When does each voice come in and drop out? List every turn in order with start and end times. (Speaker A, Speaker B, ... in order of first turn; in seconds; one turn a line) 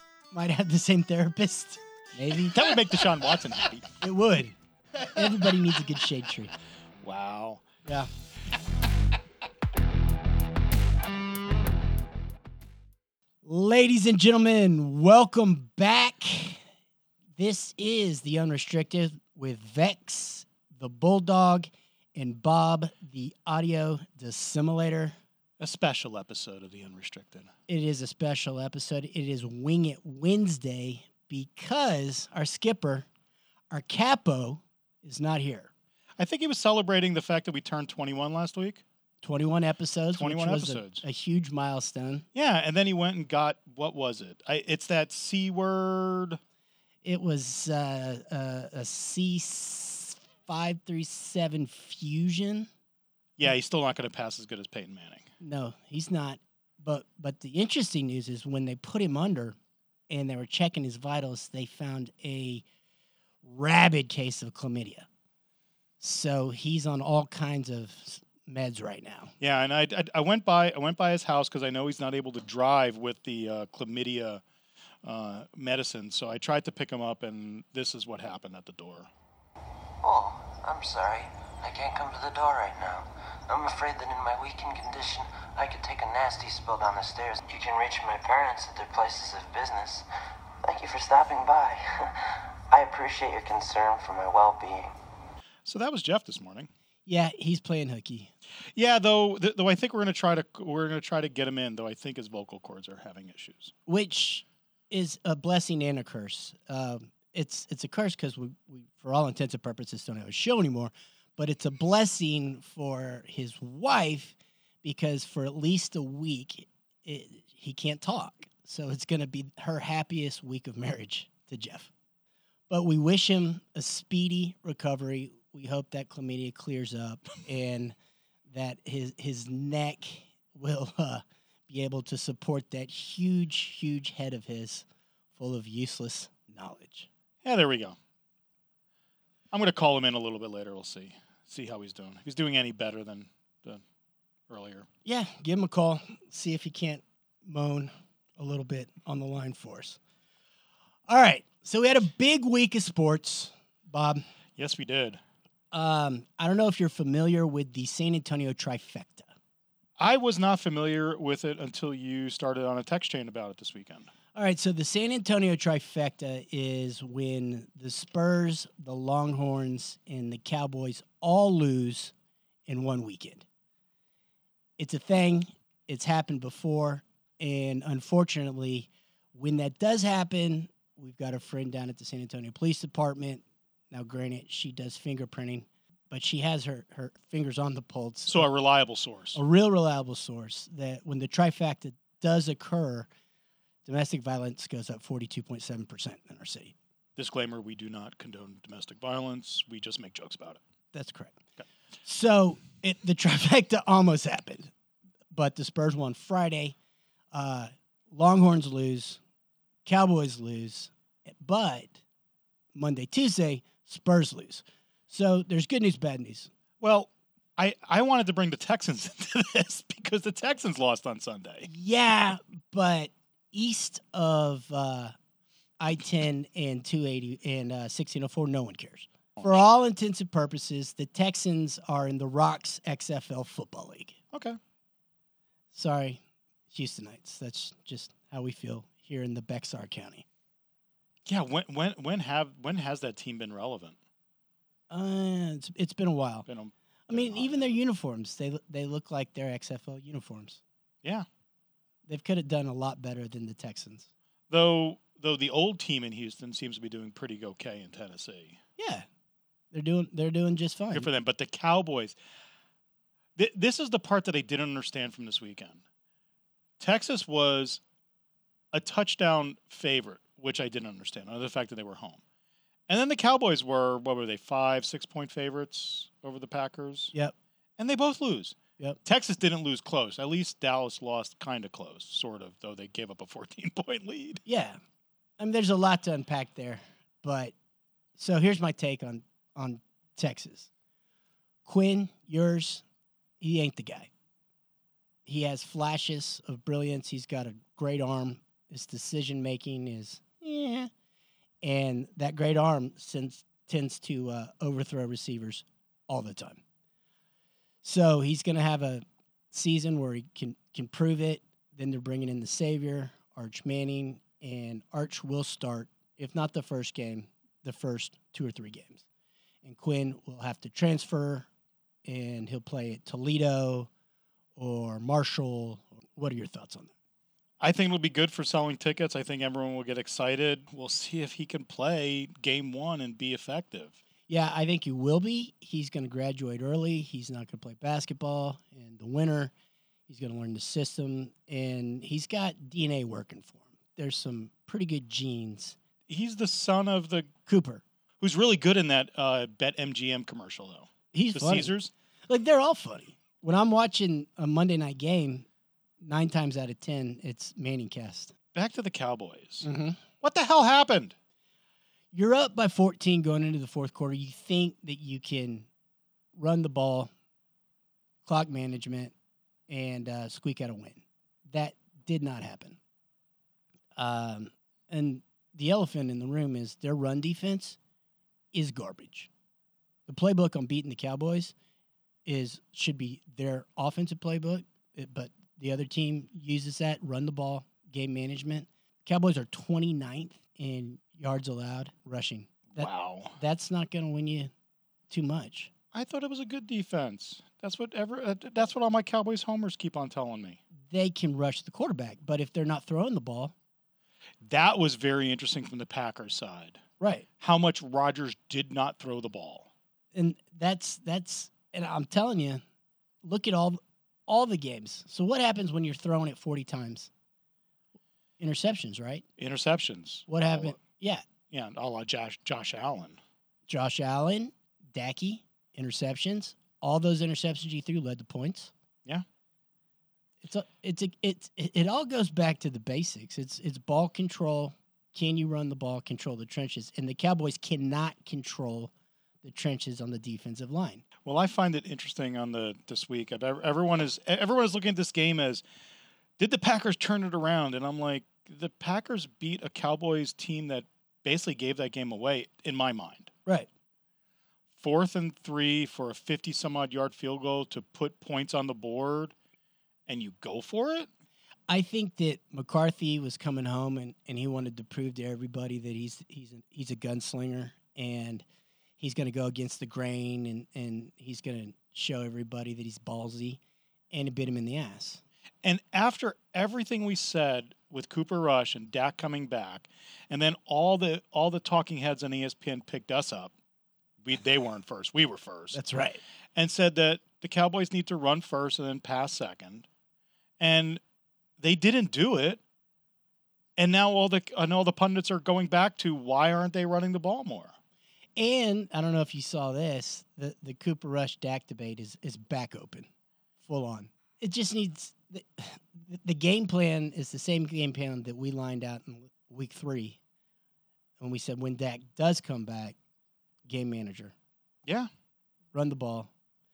Speaker A: 0.3-2.6
Speaker B: 2.5-3.9
Speaker A: 4.0-6.5
Speaker B: 7.0-7.6
Speaker A: 13.4-16.6
Speaker A: 17.4-25.1
Speaker B: 25.6-27.5
Speaker A: 27.7-33.1
Speaker A: 33.7-35.7
Speaker B: 36.2-38.8
Speaker A: 39.2-42.2
Speaker B: 40.1-41.0
Speaker B: 42.3-46.4
Speaker A: 47.0-52.7
Speaker B: 53.4-55.3
Speaker A: 55.4-59.6
Speaker A: 60.1-62.6
Speaker A: 63.4-65.1
Speaker A: 66.0-69.3
Speaker B: 69.4-74.4
Speaker B: 75.0-79.1
Speaker C: 80.0-90.0
Speaker C: 90.6-94.9
Speaker B: 95.7-96.7
Speaker A: 97.1-98.3
Speaker B: 98.8-103.7
Speaker A: 103.9-121.9
Speaker A: 122.7-128.0
Speaker A: 128.5-137.1
Speaker B: 137.4-138.0
Speaker B: 139.5-143.8
Speaker B: 144.5-144.9
Speaker A: 145.1-150.0
Speaker A: 151.1-154.2
Speaker B: 154.6-155.2
Speaker A: 155.7-159.3
Speaker B: 160.0-164.1
Speaker A: 164.3-172.1
Speaker A: 172.7-173.5
Speaker A: 174.8-188.5
Speaker B: 188.3-189.4
Speaker A: 189.3-193.1
Speaker A: 193.8-196.7
Speaker B: 197.2-200.6
Speaker A: 200.9-201.4
Speaker A: 202.1-204.7
Speaker A: 205.3-206.8
Speaker A: 207.3-209.2
Speaker A: 209.8-212.0
Speaker A: 212.8-216.5
Speaker B: 216.8-221.7
Speaker A: 221.7-225.1
Speaker A: 225.8-234.2
Speaker B: 234.3-234.6
Speaker A: 235.7-236.2
Speaker A: 236.7-240.3
Speaker B: 241.3-244.0
Speaker A: 244.9-246.5
Speaker B: 246.5-247.7
Speaker A: 247.1-250.6
Speaker A: 252.1-254.1
Speaker B: 254.5-258.6
Speaker A: 258.8-259.1
Speaker A: 259.7-261.1
Speaker B: 260.9-262.2
Speaker B: 263.4-265.8
Speaker B: 266.8-267.8
Speaker B: 268.7-272.2
Speaker B: 272.9-277.1
Speaker B: 277.8-284.4
Speaker A: 284.5-284.8
Speaker A: 285.4-287.5
Speaker A: 288.2-290.7
Speaker A: 291.6-292.8
Speaker A: 293.4-294.1
Speaker A: 295.3-300.9
Speaker A: 301.6-306.6
Speaker A: 307.8-319.0
Speaker A: 319.6-321.5
Speaker A: 322.1-323.9
Speaker A: 324.6-326.9
Speaker B: 327.6-334.0
Speaker A: 334.3-339.5
Speaker A: 340.1-345.8
Speaker B: 346.1-347.3
Speaker A: 347.5-347.8
Speaker B: 348.2-351.9
Speaker A: 351.1-351.7
Speaker A: 352.3-355.5
Speaker A: 356.0-358.3
Speaker B: 358.6-359.7
Speaker A: 359.6-360.0
Speaker B: 360.2-361.1
Speaker A: 362.1-365.7
Speaker A: 366.4-367.1
Speaker A: 368.2-369.1
Speaker A: 369.7-372.8
Speaker A: 374.0-377.8
Speaker A: 378.5-379.3
Speaker A: 380.1-381.5
Speaker A: 382.2-394.5
Speaker B: 392.8-393.4
Speaker A: 395.1-395.7
Speaker B: 395.9-400.6
Speaker A: 400.9-403.5
Speaker B: 404.4-406.8
Speaker A: 407.0-407.3
Speaker B: 407.4-409.7
Speaker A: 410.1-412.6
Speaker A: 413.2-417.1
Speaker A: 418.4-419.2
Speaker B: 419.4-420.8
Speaker A: 420.3-421.2
Speaker B: 421.5-423.2
Speaker A: 423.7-428.7
Speaker A: 430.4-438.9
Speaker A: 439.4-441.0
Speaker B: 441.2-445.6
Speaker B: 446.4-453.3
Speaker B: 454.8-459.3
Speaker B: 460.1-461.1
Speaker A: 461.7-468.4
Speaker A: 469.0-473.6
Speaker A: 474.1-475.2
Speaker B: 475.6-483.5
Speaker B: 484.2-485.8
Speaker A: 485.7-486.2
Speaker B: 486.6-489.9
Speaker B: 490.6-491.0
Speaker B: 491.6-492.6
Speaker B: 493.8-497.7
Speaker A: 498.4-503.1
Speaker A: 503.6-510.2
Speaker A: 511.2-513.0
Speaker A: 513.7-514.3
Speaker A: 515.7-516.3